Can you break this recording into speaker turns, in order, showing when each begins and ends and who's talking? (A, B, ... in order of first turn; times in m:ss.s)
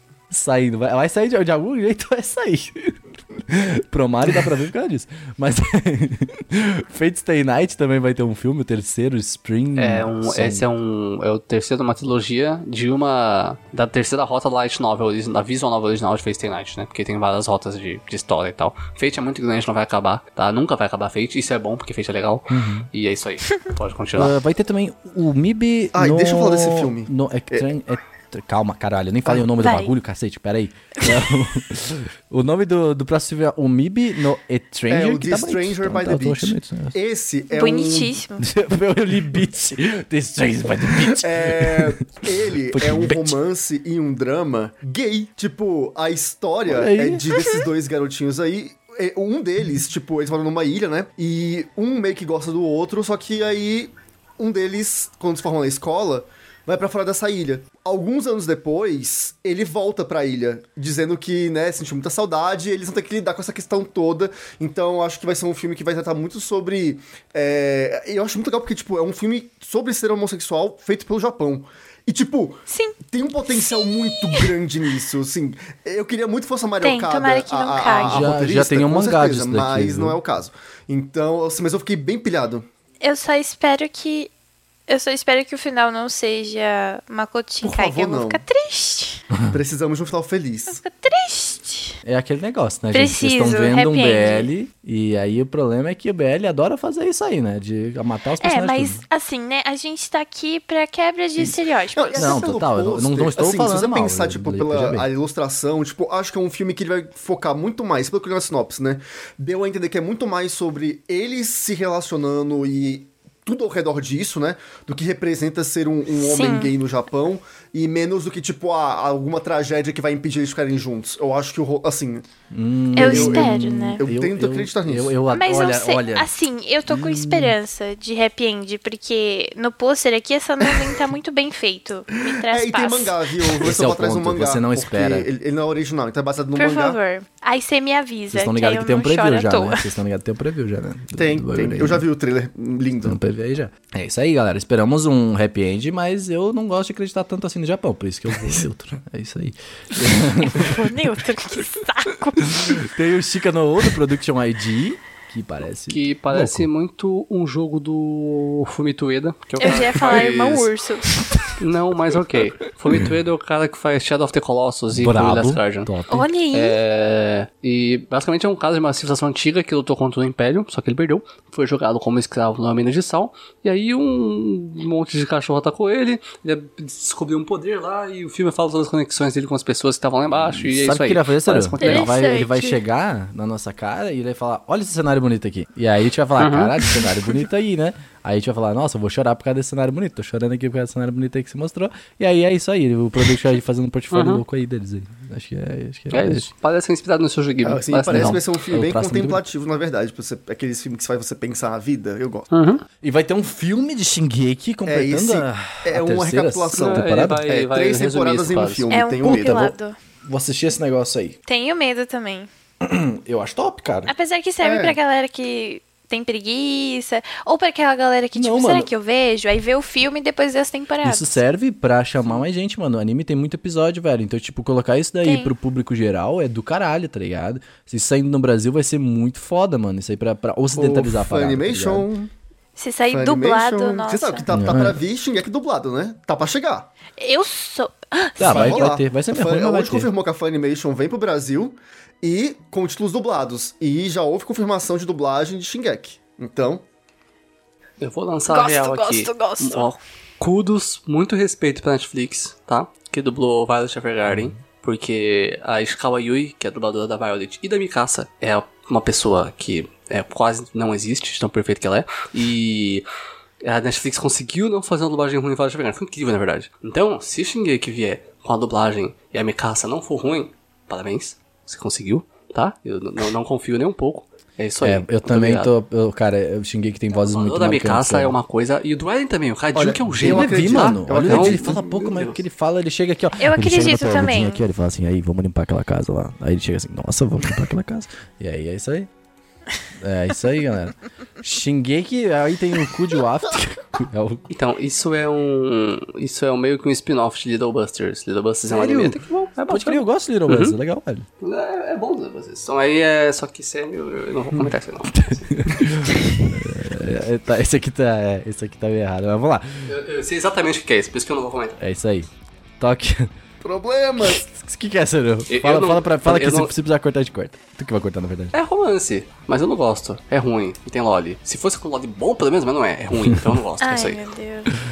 0:00.3-0:10.7 A
0:09.8-0:24.4 B
0:22.5-0:22.9 A
0:24.2-0:36.9 A
0:25.9-0:27.7 C
0:29.6-0:29.9 D
0:34.9-0:38.2 C
0:37.5-0:38.4 D
0:38.4-0:43.4 A
0:41.0-1:22.7 C
0:46.7-0:47.3 A
1:12.7-1:13.0 D
1:13.5-1:14.5 D
1:16.8-1:18.3 D
1:18.0-1:20.2 A
1:23.0-1:24.3 D
1:24.9-1:29.2 D
1:27.6-1:28.4 C
1:29.5-1:30.8 C
1:30.7-1:32.0 D
1:32.0-1:39.0 A
1:32.9-1:34.5 D
1:38.4-1:42.4 D
1:41.4-2:02.2 C
1:42.2-1:45.1 A
1:56.1-1:56.7 D
2:02.5-2:06.3 A
2:03.0-2:04.0 D
2:03.0-2:05.2 C
2:05.3-2:13.2 D
2:06.9-2:07.6 A
2:12.3-2:17.0 C
2:13.6-2:15.3 A
2:16.6-2:19.9 D
2:18.3-2:22.1 A
2:21.2-2:23.2 C
2:23.0-2:31.0 A
2:30.4-2:32.8 D
2:32.4-2:36.7 A
2:35.9-2:40.7 B
2:39.6-2:41.6 D
2:39.7-2:40.1 A
2:41.6-2:45.9 B
2:44.9-2:46.3 A
2:46.1-2:46.8 D
2:46.5-3:02.1 B
3:00.3-3:16.5 A
3:01.8-3:02.8 D
3:06.4-3:07.1 B
3:14.1-3:14.4 B
3:16.1-3:18.4 B
3:17.6-3:22.5 C
3:18.1-3:19.4 A
3:22.5-3:22.8 B
3:23.0-3:27.4 A
3:24.9-3:29.7 C
3:26.8-3:28.9 B
3:28.9-3:30.0 D
3:29.2-3:29.7 A
3:30.3-3:31.4 A
3:31.5-3:32.5 D
3:32.8-3:34.1 A
3:34.1-3:41.4 D
3:34.6-3:35.0 C
3:38.4-3:38.9 A
3:41.0-3:52.1 A
3:45.2-3:45.5 D
3:50.8-3:52.3 C
3:52.8-3:54.5 D
3:53.1-3:56.9 C
3:54.5-3:55.0 A
3:57.2-3:58.9 D
3:58.4-4:00.1 A
3:58.4-4:06.8 C
4:08.0-4:23.0 B
4:08.5-4:09.9 D
4:23.6-4:35.7 B
4:34.8-4:38.4 A
4:37.1-4:42.3 B
4:39.8-4:42.3 C
4:40.1-4:49.1 A
4:43.4-4:44.6 D
4:50.0-4:54.4 A
4:54.5-5:00.8 B
4:58.7-5:01.2 A
5:01.4-5:06.4 B
5:04.5-5:09.9 A
5:09.9-5:11.8 B
5:11.8-5:12.3 A
5:12.8-5:13.3 A
5:13.6-5:14.4 C
5:14.2-5:18.5 A
5:15.5-5:16.7 B
5:18.5-5:24.2 B
5:23.1-5:23.6 A
5:23.8-5:24.7 D